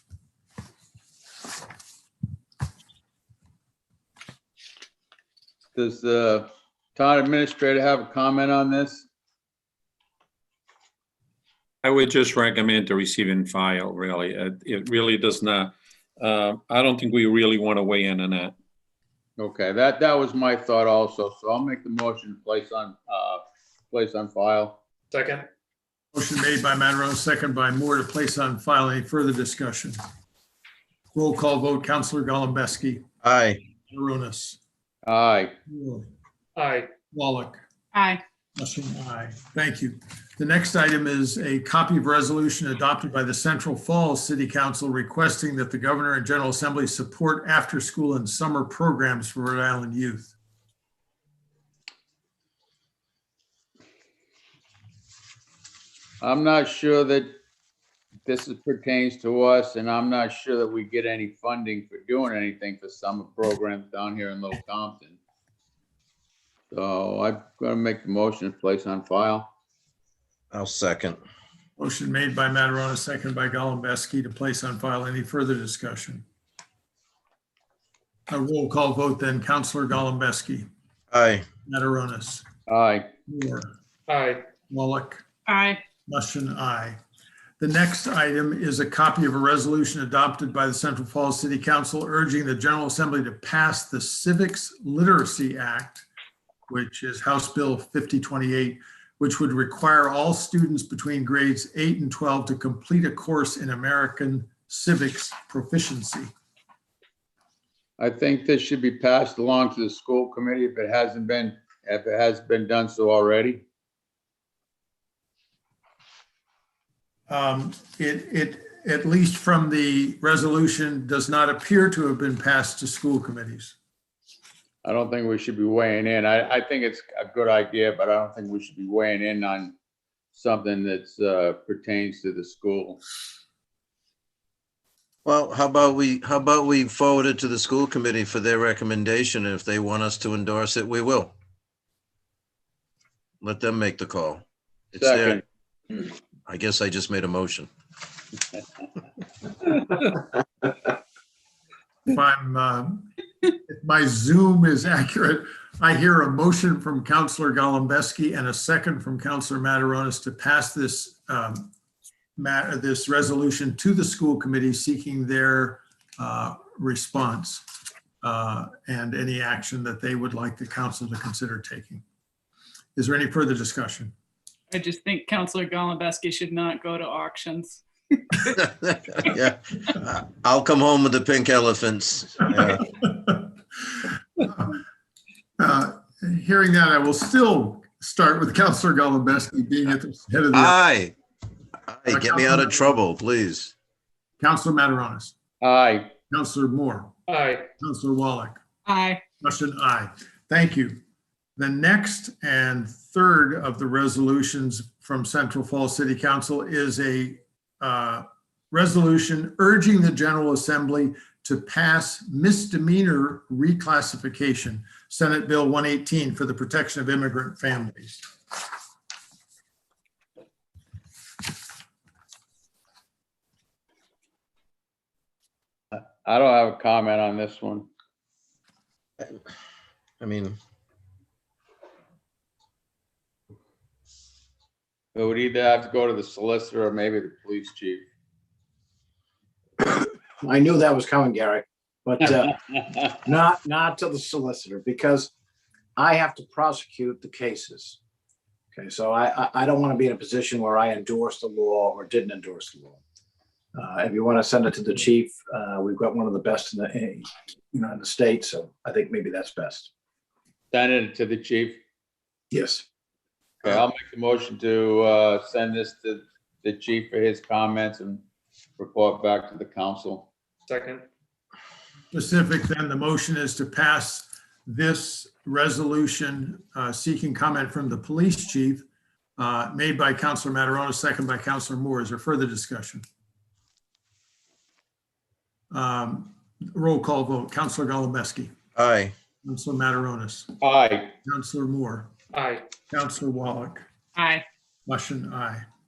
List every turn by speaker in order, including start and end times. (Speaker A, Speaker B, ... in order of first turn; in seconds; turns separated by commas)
Speaker A: 5.8-9.1, Speaker B: 11.8-18.5, Speaker A: 19.4-24.8, Speaker C: 25.1-25.5, Speaker D: 26.1-30.0, Speaker D: 31.1-33.0, Speaker E: 33.2-33.6, Speaker D: 33.9-34.6, Speaker A: 35.1-35.5, Speaker D: 35.7-36.1, Speaker C: 36.6-36.9, Speaker D: 37.1-37.6, Speaker F: 37.9-38.2, Speaker D: 38.6-50.4, Speaker A: 56.2-57.3, Speaker A: 58.2-65.2, Speaker A: 66.7-69.5, Speaker E: 70.5-71.2, Speaker D: 71.8-76.2, Speaker D: 78.3-80.7, Speaker E: 81.1-81.5, Speaker D: 81.7-82.4, Speaker A: 82.7-83.1, Speaker D: 83.3-83.7, Speaker C: 84.1-84.4, Speaker D: 84.7-85.2, Speaker F: 85.5-85.8, Speaker D: 86.1-87.0, Speaker D: 87.6-96.1, Speaker D: 96.7-106.3, Speaker A: 108.0-113.6, Speaker D: 117.3-123.8, Speaker A: 124.8-129.7, Speaker A: 130.3-133.0, Speaker E: 135.2-141.3, Speaker E: 143.4-145.4, Speaker A: 145.0-145.4, Speaker E: 146.5-147.7, Speaker D: 152.1-153.1, Speaker D: 153.7-161.7, Speaker D: 162.4-167.7, Speaker D: 168.2-172.0, Speaker D: 173.0-174.1, Speaker F: 174.7-178.6, Speaker E: 179.2-182.9, Speaker D: 183.0-183.5, Speaker D: 185.6-190.8, Speaker E: 190.5-191.1, Speaker E: 191.9-193.7, Speaker D: 192.1-192.9, Speaker D: 194.4-195.3, Speaker A: 195.6-196.1, Speaker D: 196.3-197.2, Speaker C: 197.3-197.7, Speaker D: 197.8-198.6, Speaker F: 198.9-199.2, Speaker D: 199.4-201.0, Speaker D: 201.6-218.2, Speaker A: 225.9-227.9, Speaker E: 230.2-230.6, Speaker A: 235.2-238.0, Speaker G: 239.8-245.3, Speaker G: 246.0-248.0, Speaker G: 248.7-253.0, Speaker G: 253.8-259.9, Speaker A: 260.7-261.8, Speaker G: 262.5-262.9, Speaker A: 263.6-268.2, Speaker A: 268.8-270.3, Speaker C: 270.7-271.0, Speaker D: 272.1-278.9, Speaker D: 279.4-283.0, Speaker D: 285.7-288.5, Speaker E: 288.8-289.1, Speaker D: 289.4-290.6, Speaker A: 290.6-291.1, Speaker D: 291.2-292.1, Speaker C: 292.3-292.6, Speaker D: 292.9-293.9, Speaker F: 294.2-294.4, Speaker D: 294.9-295.6